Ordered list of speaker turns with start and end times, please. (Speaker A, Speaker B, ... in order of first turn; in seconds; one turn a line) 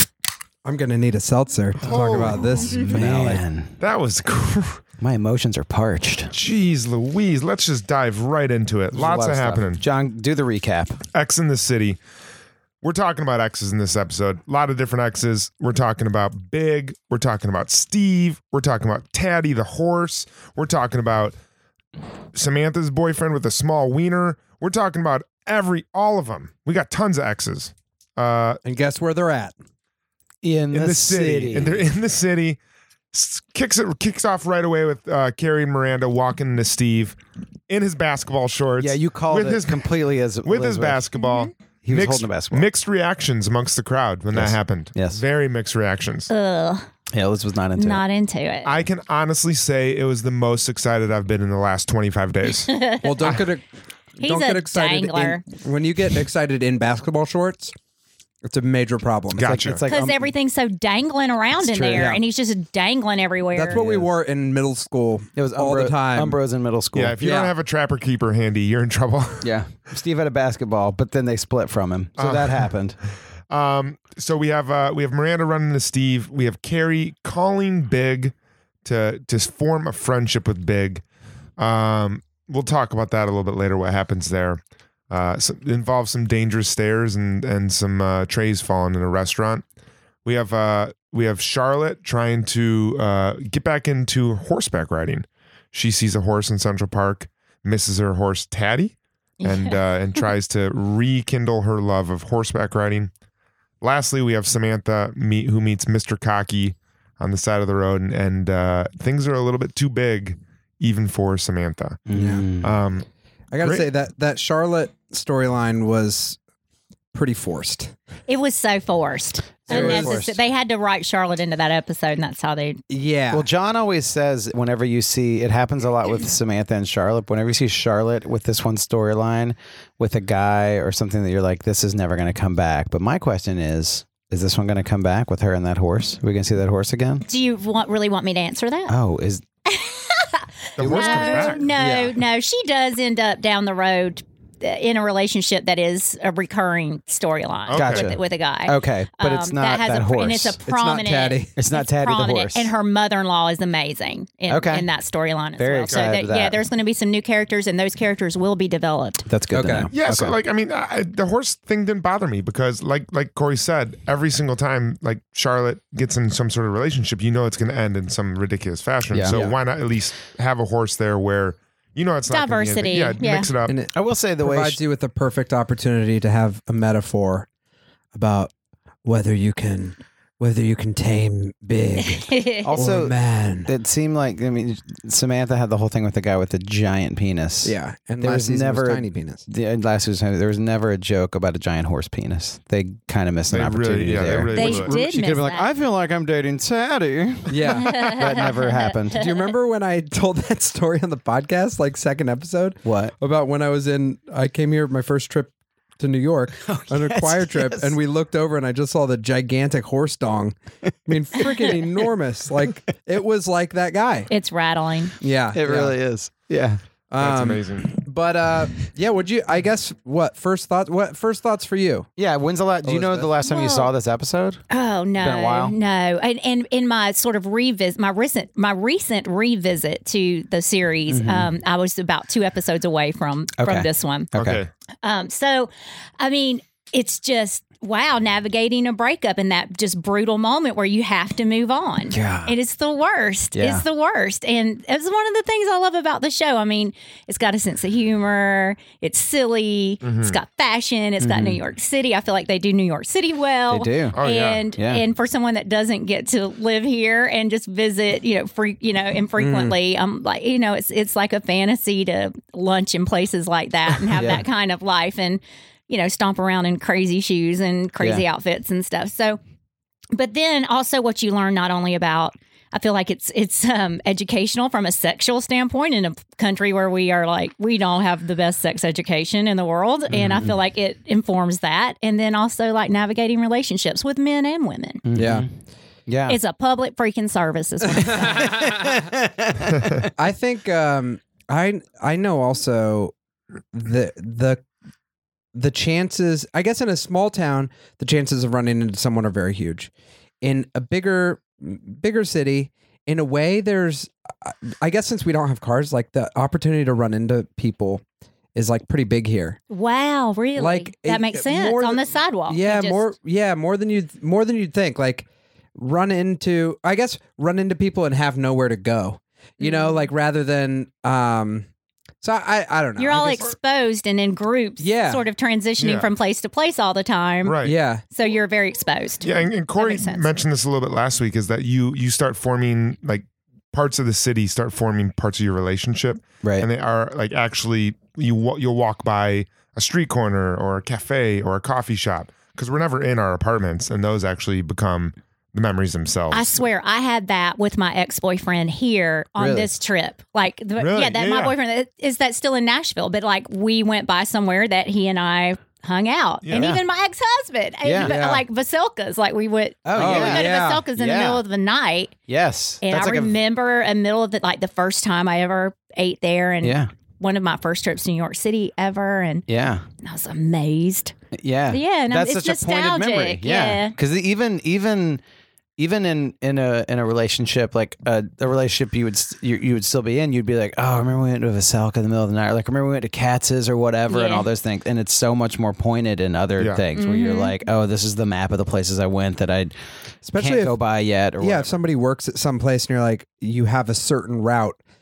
Speaker A: 0.6-3.4
Speaker B: 1.8-2.6
Speaker C: 2.7-3.8
Speaker B: 3.8-4.8
Speaker C: 5.0-6.3
Speaker B: 6.3-9.8
Speaker C: 8.9-11.0
Speaker B: 11.1-12.0
Speaker B: 12.8-21.4
Speaker B: 22.3-28.6
Speaker A: 28.6-29.5
Speaker C: 30.4-31.8
Speaker B: 30.7-32.6
Speaker B: 33.1-37.2
Speaker B: 37.7-46.3
Speaker C: 38.8-41.1
Speaker C: 41.8-42.7
Speaker C: 44.3-45.2
Speaker D: 46.3-46.9
Speaker C: 47.1-48.0
Speaker D: 47.8-48.7
Speaker B: 48.6-53.4
Speaker D: 52.7-53.1
Speaker A: 53.0-53.6
Speaker A: 54.1-57.7
Speaker D: 54.2-55.4
Speaker A: 58.4-59.6
Speaker B: 59.4-59.8
Speaker C: 59.4-60.3
Speaker D: 59.9-63.8
Speaker C: 61.6-62.1
Speaker A: 61.9-62.2
Speaker A: 63.5-66.4
Speaker C: 65.3-67.3
Speaker B: 66.9-69.5
Speaker A: 67.2-67.5
Speaker C: 69.4-73.0
Speaker B: 72.2-72.7
Speaker B: 73.5-81.0
Speaker B: 81.6-89.6
Speaker B: 90.2-103.1
Speaker D: 99.4-99.8
Speaker B: 103.8-112.0
Speaker C: 112.1-112.7
Speaker A: 112.1-112.4
Speaker B: 112.6-113.0
Speaker A: 113.5-116.4
Speaker B: 113.6-113.9
Speaker A: 117.1-117.9
Speaker D: 118.3-122.8
Speaker C: 119.6-120.4
Speaker A: 119.7-120.2
Speaker A: 122.9-123.5
Speaker C: 123.3-137.2
Speaker D: 137.2-138.9
Speaker C: 138.9-139.4
Speaker D: 139.7-159.2
Speaker B: 140.8-141.6
Speaker C: 140.8-141.4
Speaker A: 141.7-142.2
Speaker B: 147.7-148.1
Speaker C: 147.7-150.6
Speaker A: 150.7-151.5
Speaker C: 151.6-152.7
Speaker C: 154.5-154.9
Speaker C: 155.6-156.6
Speaker C: 159.3-160.4
Speaker A: 159.5-159.9
Speaker B: 159.9-173.7
Speaker C: 169.1-169.5
Speaker D: 172.3-173.5
Speaker A: 173.6-177.5
Speaker C: 173.9-174.8
Speaker A: 178.1-178.5
Speaker A: 179.0-183.7
Speaker D: 182.2-182.7
Speaker C: 182.6-199.2
Speaker A: 187.6-189.4
Speaker B: 193.5-194.9
Speaker D: 194.5-195.7
Speaker A: 197.5-198.4
Speaker D: 197.8-198.7
Speaker A: 199.1-214.3
Speaker C: 202.8-203.1
Speaker C: 206.7-207.9
Speaker D: 214.3-215.1
Speaker A: 215.2-215.9
Speaker C: 215.5-216.8
Speaker A: 217.1-222.1
Speaker B: 217.2-217.9
Speaker C: 222.2-224.6
Speaker A: 222.8-223.3
Speaker D: 223.4-223.9
Speaker D: 224.7-234.3
Speaker C: 225.2-225.7
Speaker C: 231.1-231.5
Speaker C: 233.6-234.6
Speaker B: 234.3-234.7
Speaker D: 235.0-269.4
Speaker C: 242.1-242.5
Speaker C: 243.5-243.8
Speaker B: 250.0-250.4
Speaker C: 251.2-251.6
Speaker C: 253.7-254.2
Speaker B: 254.1-254.6
Speaker C: 254.8-255.0
Speaker A: 259.4-259.8
Speaker C: 264.1-264.4
Speaker D: 270.1-285.0
Speaker C: 280.1-280.5
Speaker C: 285.0-285.5
Speaker A: 285.1-285.5
Speaker C: 286.1-286.4
Speaker D: 286.3-288.5
Speaker C: 288.1-290.1
Speaker A: 290.1-293.1
Speaker A: 293.7-294.6
Speaker A: 295.5-299.9
Speaker A: 300.4-308.0
Speaker A: 308.5-309.6
Speaker D: 309.7-313.1
Speaker A: 310.6-321.7
Speaker D: 319.6-320.1
Speaker A: 322.2-323.5
Speaker D: 323.0-327.6
Speaker A: 324.8-325.2
Speaker B: 325.8-326.1
Speaker B: 327.4-327.7
Speaker A: 327.6-328.0
Speaker D: 328.1-330.3
Speaker B: 329.2-346.6
Speaker D: 346.3-362.1
Speaker C: 349.4-349.7
Speaker B: 350.8-351.6
Speaker B: 356.4-356.7
Speaker C: 356.5-356.8
Speaker C: 357.8-358.1
Speaker A: 358.0-358.4
Speaker C: 359.8-361.4
Speaker A: 359.9-360.9
Speaker C: 362.3-363.4
Speaker D: 362.8-369.4
Speaker C: 366.6-366.9
Speaker C: 369.5-369.8
Speaker D: 370.0-371.1
Speaker C: 371.3-375.2
Speaker D: 371.7-373.9
Speaker C: 375.8-389.7
Speaker D: 384.1-384.5
Speaker D: 386.9-387.5
Speaker A: 390.2-390.8
Speaker C: 390.4-391.7
Speaker A: 391.4-394.8